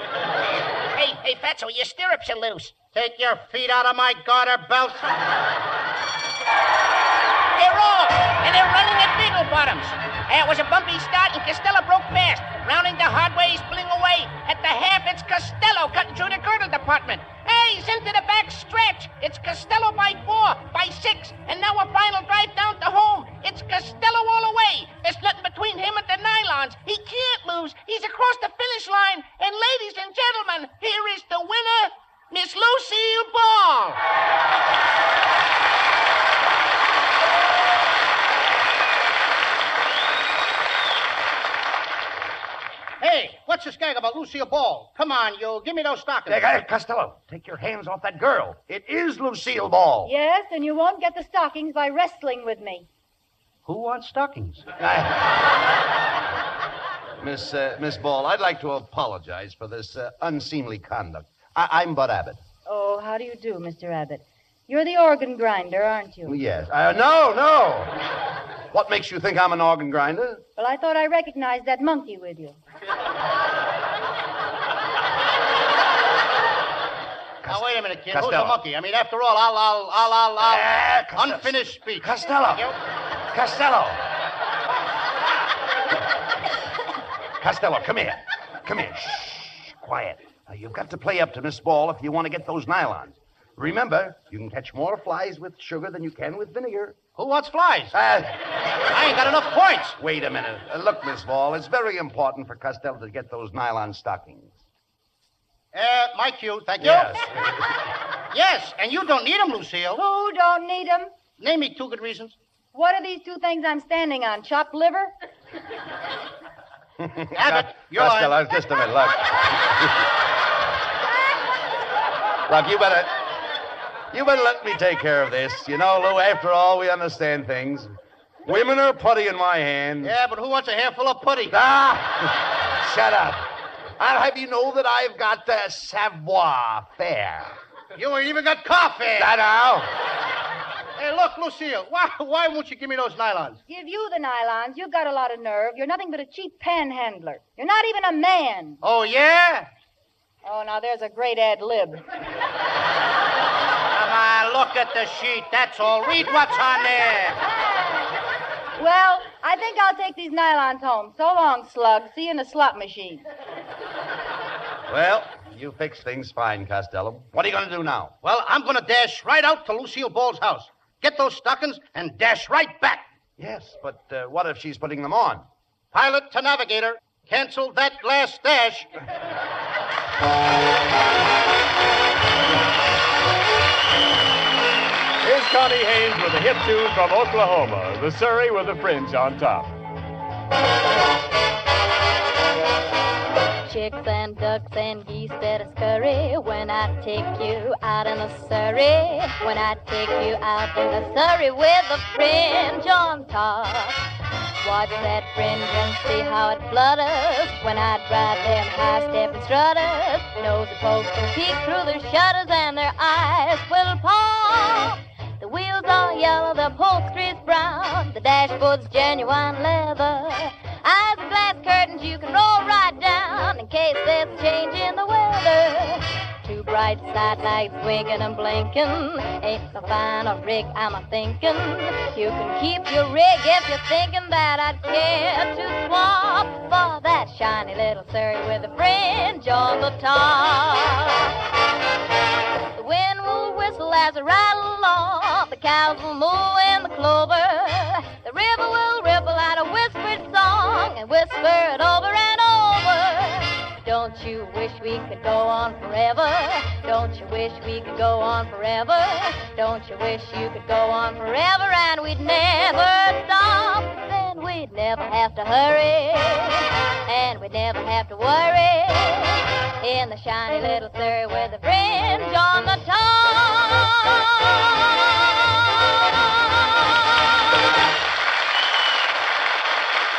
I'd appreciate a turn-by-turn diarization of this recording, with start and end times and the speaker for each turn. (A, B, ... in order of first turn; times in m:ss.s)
0:00.9-0:02.8 A
0:02.9-0:05.1 B
0:07.6-0:34.0 A
0:43.0-0:46.4 B
0:46.3-0:50.1 C
0:50.0-0:52.9 D
0:53.6-0:54.7 B
0:54.8-0:55.3 C
0:57.2-1:02.4 C
1:02.6-1:06.4 D
1:06.2-1:08.0 C
1:08.7-1:10.4 C
1:10.6-1:12.6 D
1:17.4-1:18.6 C
1:17.5-1:22.7 B
1:20.4-1:22.7 C
1:23.3-1:24.0 C
1:27.4-1:37.0 C
1:37.2-1:37.9 B
1:37.9-1:38.4 C
1:38.9-1:40.0 B
1:40.0-1:44.6 C
1:45.7-1:47.2 B
1:46.8-1:47.5 C
1:48.3-1:50.0 B
1:50.0-1:51.1 D
1:51.4-1:52.4 B
1:52.7-1:55.1 D
1:57.0-2:00.0 C
1:57.3-1:58.4 B
2:02.5-2:03.1 C
2:04.1-2:07.9 C
2:08.4-2:10.1 C
2:10.0-2:11.6 B
2:11.5-2:13.4 C
2:14.0-2:17.5 C
2:18.0-2:19.3 B
2:19.2-2:19.9 C
2:21.0-2:23.6 B
2:23.7-2:28.8 D
2:28.8-2:29.7 B
2:30.4-2:32.0 D
2:33.9-2:37.4 B
2:38.8-2:43.2 D
2:44.9-2:48.1 C
2:48.2-2:53.0 B
2:53.4-2:55.4 C
2:55.9-2:58.9 B
3:05.2-3:09.7 E
3:13.6-3:24.0 F
3:24.6-4:01.3 F
4:02.7-4:34.8 F